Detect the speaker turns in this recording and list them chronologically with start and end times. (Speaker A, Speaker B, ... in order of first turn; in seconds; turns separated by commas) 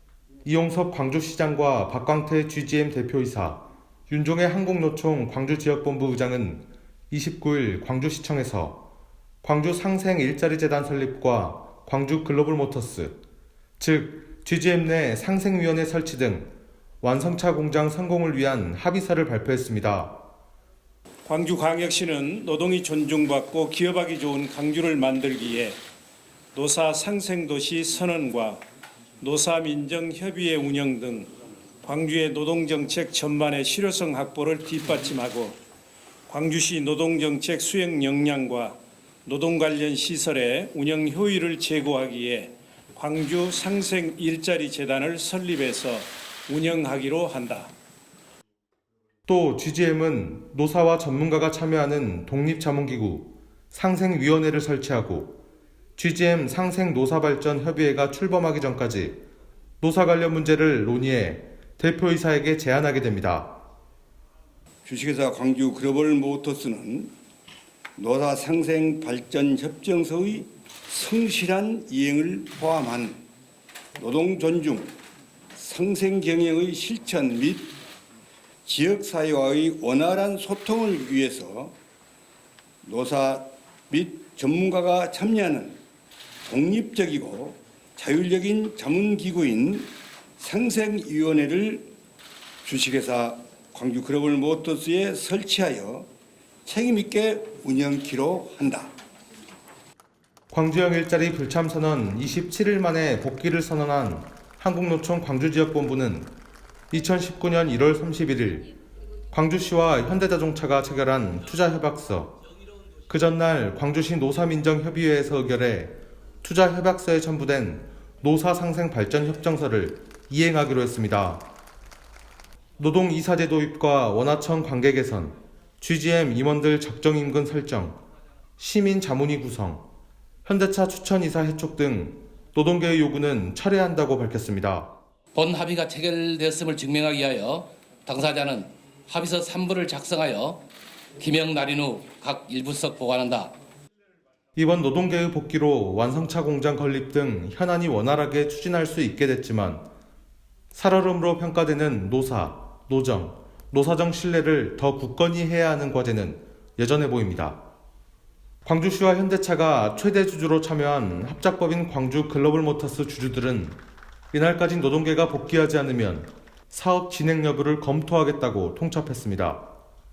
Speaker A: 0.5-8.9, Speaker A: 9.4-13.2, Speaker A: 13.8-20.2, Speaker B: 21.2-25.8, Speaker B: 26.5-28.6, Speaker B: 29.2-31.3, Speaker B: 31.8-35.6, Speaker B: 36.3-47.7, Speaker A: 49.3-55.4, Speaker A: 56.0-59.2, Speaker A: 59.8-63.5, Speaker C: 64.8-67.1, Speaker C: 68.0-73.2, Speaker C: 74.0-74.9, Speaker C: 75.5-77.7, Speaker C: 78.7-81.7, Speaker C: 82.8-85.8, Speaker C: 86.5-91.9, Speaker C: 92.6-96.1, Speaker C: 96.7-98.9, Speaker A: 100.5-106.4, Speaker A: 106.9-108.7, Speaker A: 109.3-112.4, Speaker A: 113.1-121.5, Speaker A: 122.8-128.0, Speaker A: 128.6-129.9, Speaker A: 130.4-134.9, Speaker D: 135.3-140.6, Speaker D: 141.2-143.6, Speaker A: 144.6-149.9, Speaker A: 150.7-157.6, Speaker A: 158.7-163.8, Speaker A: 164.3-169.7